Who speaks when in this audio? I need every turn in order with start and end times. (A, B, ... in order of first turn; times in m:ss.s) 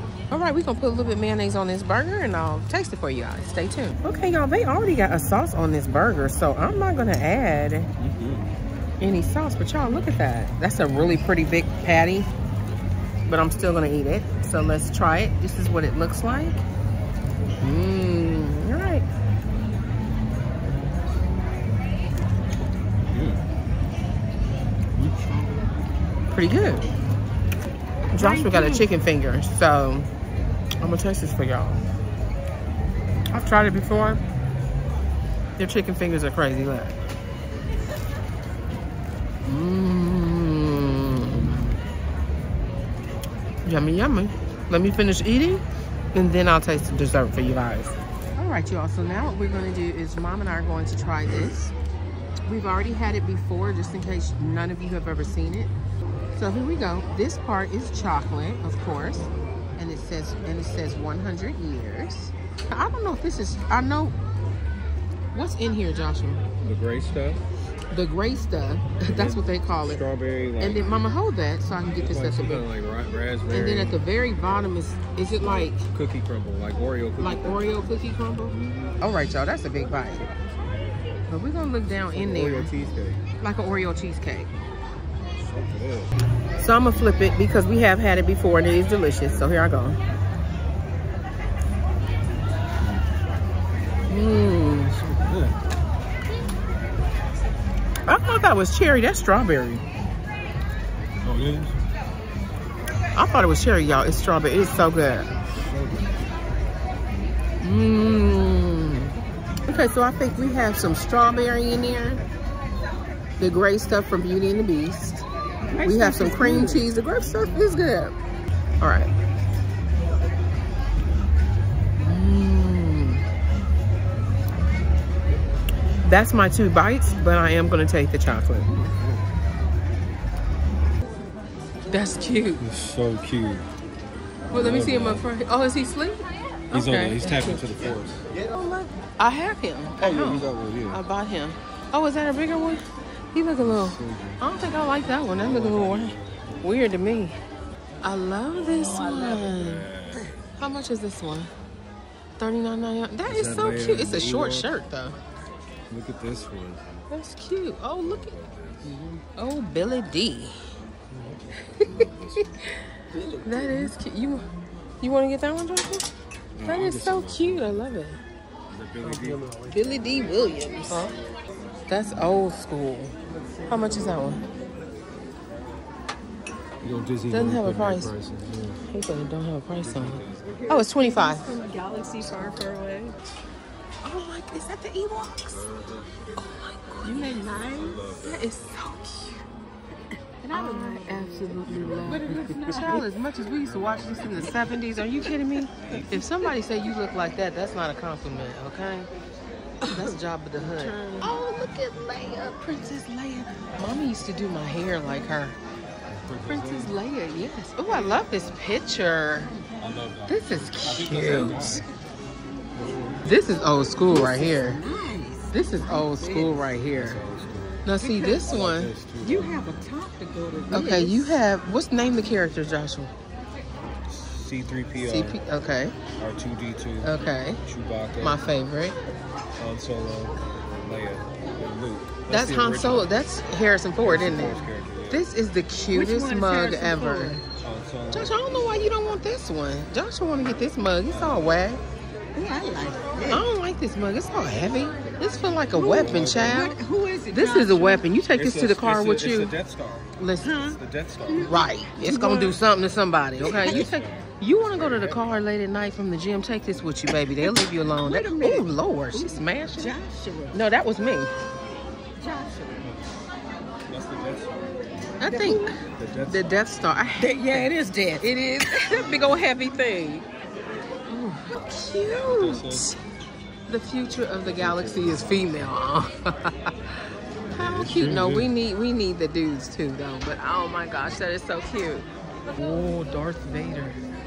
0:00.3-0:07.9 A
0:08.0-0:08.5 B
0:09.0-0:12.3 A
0:13.3-0:16.6 A
0:17.6-0:19.1 A
0:23.0-0:23.4 B
0:25.0-0:25.7 B
0:26.3-0:26.9 A
0:28.1-0:30.1 A
0:28.1-0:28.9 C
0:30.8-0:31.8 A
0:33.3-0:34.2 A
0:35.6-0:36.9 A
0:39.4-0:41.6 A
0:43.6-0:45.6 A
0:46.1-0:51.7 A
0:52.5-0:55.7 A
0:56.3-1:04.2 A
1:05.3-1:06.5 A
1:06.6-1:07.4 B
1:07.9-1:10.0 A
1:09.0-1:11.1 B
1:10.6-1:12.7 A
1:12.0-1:14.0 B
1:13.5-1:15.9 A
1:15.9-1:17.7 B
1:17.2-1:20.2 A
1:18.6-1:19.0 B
1:20.3-1:20.7 B
1:21.3-1:22.7 A
1:22.1-1:23.2 B
1:23.4-1:24.5 A
1:25.4-1:26.1 B
1:26.6-1:30.0 A
1:34.1-1:35.0 A
1:34.8-1:35.6 B
1:38.1-1:39.8 A
1:41.2-1:41.8 B
1:43.2-1:45.3 A
1:45.4-1:46.3 B
1:47.6-1:49.1 A
1:49.7-1:52.2 A
1:53.4-1:55.2 A
1:55.7-1:56.9 C
1:55.8-1:58.2 A
1:58.8-1:59.1 A
2:02.0-2:03.2 A
2:06.0-2:08.8 A
2:08.8-2:09.2 B
2:11.9-2:12.6 A
2:12.6-2:13.7 B
2:14.5-2:15.3 B
2:14.5-2:17.7 A
2:16.7-2:18.3 B
2:18.5-2:27.4 A
2:20.0-2:21.0 B
2:23.6-2:24.5 B
2:25.2-2:26.7 B
2:28.0-2:29.9 A
2:28.8-2:29.5 C
2:29.0-2:30.3 B
2:30.6-2:31.5 A
2:32.4-2:35.2 A
2:33.2-2:34.7 B
2:35.9-2:37.1 B
2:37.1-2:38.4 A
2:38.0-2:39.2 B
2:39.4-2:40.6 A
2:41.1-2:42.6 B
2:41.7-2:42.7 A
2:43.1-2:43.9 C
2:43.4-2:44.5 A
2:45.0-2:46.1 A
2:46.6-2:47.9 B
2:46.6-2:48.2 A
2:48.7-2:50.6 B
2:49.0-2:49.6 C
2:49.7-2:51.2 A
2:51.9-2:53.2 A
2:53.7-2:54.4 A
2:56.8-2:58.8 B
2:57.3-2:58.1 A
2:58.9-3:01.4 A
2:59.8-3:00.6 B
3:00.5-3:03.2 C
3:04.0-3:05.7 A
3:05.5-3:06.1 B
3:06.4-3:07.5 A
3:07.0-3:08.0 C
3:07.6-3:08.5 B
3:08.2-3:09.4 A
3:10.4-3:13.0 C
3:10.5-3:19.1 A
3:11.6-3:12.6 B
3:13.6-3:16.2 B
3:15.9-3:16.5 C
3:19.8-3:21.3 C
3:19.9-3:25.6 A
3:26.1-3:27.0 B
3:26.5-3:29.5 A
3:29.8-3:31.9 B
3:30.3-3:31.8 A
3:32.8-3:33.2 B
3:33.2-3:34.8 A
3:34.0-3:36.6 C
3:35.5-3:37.2 A
3:36.6-3:39.9 B
3:37.8-3:38.9 A
3:38.0-3:38.6 C
3:39.2-3:41.4 C
3:40.7-3:43.1 A
3:44.1-3:45.4 B
3:45.0-3:46.0 A
3:46.2-3:48.4 B
3:47.0-3:47.6 A
3:48.2-3:49.0 A
3:49.6-3:53.2 B
3:52.3-3:57.4 A
3:54.0-3:55.3 B
3:55.9-3:57.4 C
3:57.6-3:58.5 B
3:58.1-4:01.8 A
4:01.1-4:01.7 B
4:02.3-4:03.5 C
4:03.3-4:09.5 A
4:05.7-4:08.1 C
4:05.9-4:06.7 B
4:08.3-4:10.2 B
4:10.2-4:10.6 A
4:10.4-4:12.6 C
4:10.7-4:11.7 B
4:11.4-4:20.0 A
4:13.4-4:15.3 B
4:13.4-4:13.9 C
4:17.4-4:20.6 C
4:20.5-4:21.3 A
4:22.2-4:22.9 C
4:22.8-4:23.1 B
4:23.9-4:25.1 B
4:25.2-4:30.3 A
4:25.2-4:25.8 C
4:25.9-4:26.7 B
4:27.2-4:27.8 C
4:29.0-4:29.3 B
4:31.1-4:33.0 A
4:32.2-4:32.9 B
4:33.7-4:37.0 A
4:34.4-4:35.8 B
4:37.5-4:38.5 B
4:37.6-4:44.0 A